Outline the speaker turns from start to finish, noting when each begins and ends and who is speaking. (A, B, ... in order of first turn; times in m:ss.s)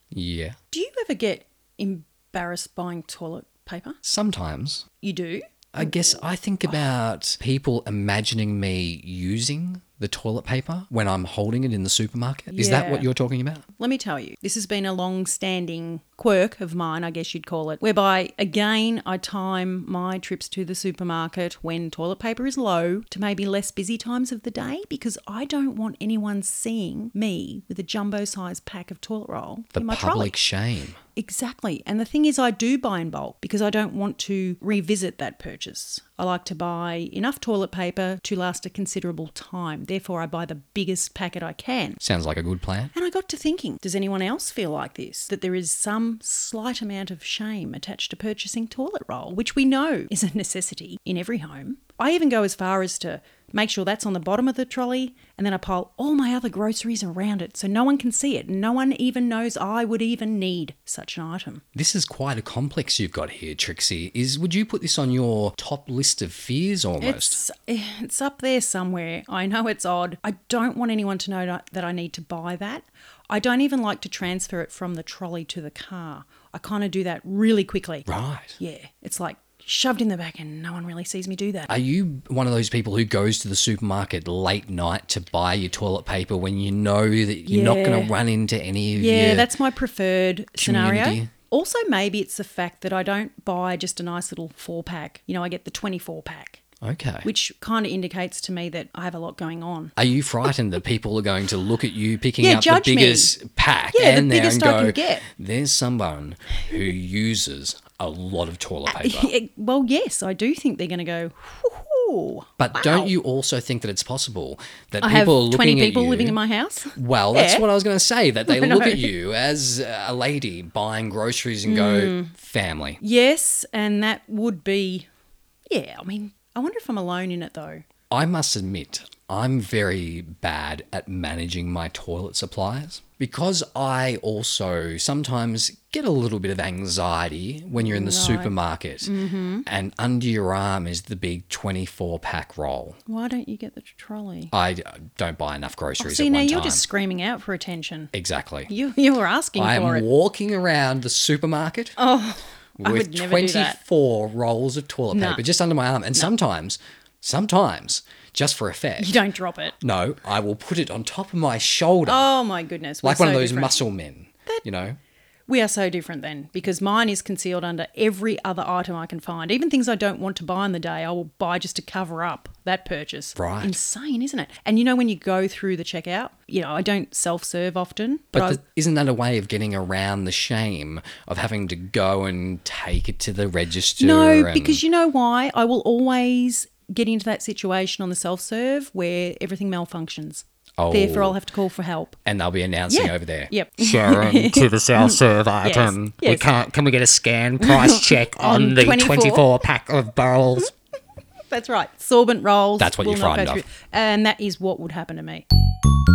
0:00.1-0:00.6 A
0:00.7-0:04.0 B
0:04.0-0:04.8 A
0:05.0-0:06.2 B
0:05.7-0:13.6 A
0:12.5-0:13.1 B
0:13.8-0:30.4 B
0:29.7-0:31.0 A
0:31.2-0:42.0 B
0:42.0-0:42.9 A
0:42.9-1:01.6 B
1:01.7-1:07.4 A
1:07.0-1:21.7 B
1:18.1-1:18.6 A
1:21.7-1:29.5 A
1:27.5-1:28.1 B
1:28.9-1:36.6 B
1:30.6-1:31.3 A
1:36.8-1:37.3 A
1:37.2-1:39.9 B
1:40.0-1:49.3 A
1:42.4-1:43.4 B
1:43.9-1:45.2 B
1:48.9-1:53.1 B
1:52.6-1:56.4 A
1:55.0-1:57.6 B
1:56.9-2:03.0 A
1:58.5-1:59.1 B
2:01.6-2:02.3 B
2:03.0-2:05.1 B
2:05.7-2:07.8 B
2:08.1-2:19.1 A
2:17.8-2:18.5 B
2:19.0-2:19.6 B
2:19.6-2:23.0 A
2:23.1-2:24.5 B
2:24.5-2:26.8 A
2:26.0-2:28.1 B
2:28.1-2:28.7 A
2:28.7-2:30.0 B
2:29.6-2:31.9 A
2:32.0-2:33.8 B
2:32.8-2:39.2 A
2:35.1-2:35.4 B
2:39.0-2:39.8 B
2:39.8-2:42.3 A
2:42.0-2:43.8 B
2:43.0-2:45.0 A
2:45.5-2:58.6 B
2:53.4-2:53.8 A
2:58.3-3:04.8 A
3:04.0-3:12.2 B
3:10.8-3:11.4 A
3:12.2-3:13.5 A
3:12.9-3:16.7 B
3:13.8-3:20.7 C
3:17.6-3:19.4 B
3:21.5-3:25.4 B
3:22.8-3:23.6 A